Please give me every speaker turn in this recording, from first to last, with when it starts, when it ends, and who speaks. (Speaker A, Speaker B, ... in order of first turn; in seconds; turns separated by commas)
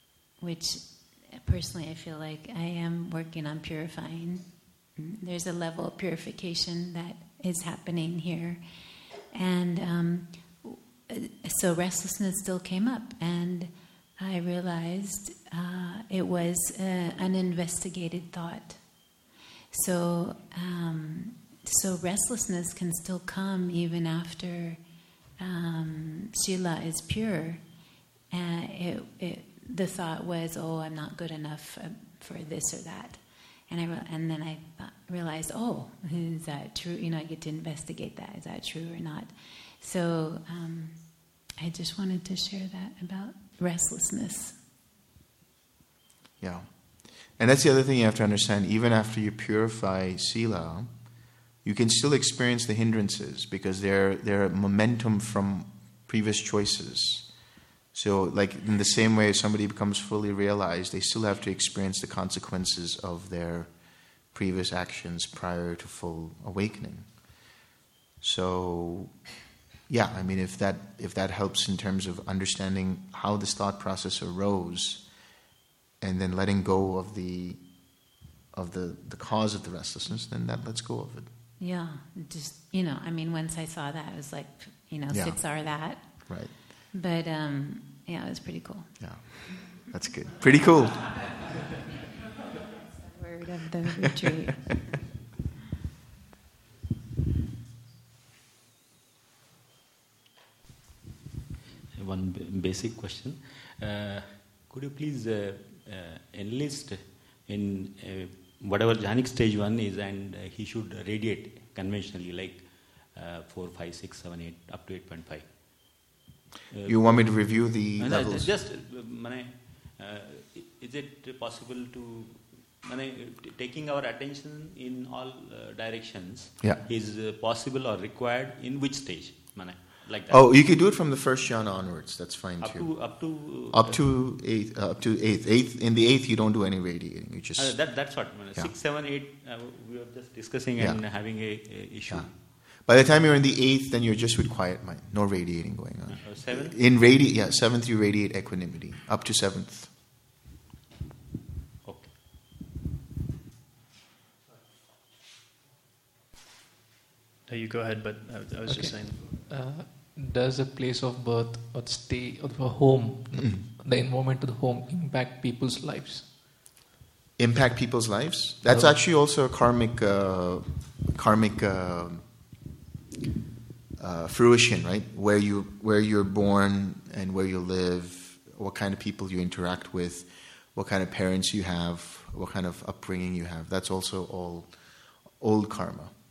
Speaker A: 0.4-27.7, Speaker A: 28.3-44.6, Speaker B: 46.4-46.7, Speaker B: 47.4-50.9, Speaker B: 51.6-57.3, Speaker B: 57.9-63.7, Speaker B: 64.3-67.1, Speaker B: 68.2-69.2, Speaker B: 69.9-75.1, Speaker B: 76.0-77.6, Speaker B: 78.5-81.3, Speaker A: 81.6-89.3, Speaker B: 85.1-86.5, Speaker B: 89.0-91.2, Speaker A: 93.1-94.8, Speaker C: 102.0-115.8, Speaker C: 116.7-130.7, Speaker B: 116.9-118.5, Speaker B: 130.3-138.7, Speaker C: 132.6-134.2, Speaker C: 137.6-142.4, Speaker B: 142.1-149.9, Speaker C: 146.2-147.0, Speaker C: 151.8-152.2, Speaker D: 154.4-154.8, Speaker D: 157.5-159.4, Speaker E: 158.7-166.3, Speaker B: 163.3-163.7, Speaker B: 167.4-172.2, Speaker E: 168.7-168.9, Speaker B: 174.0-186.1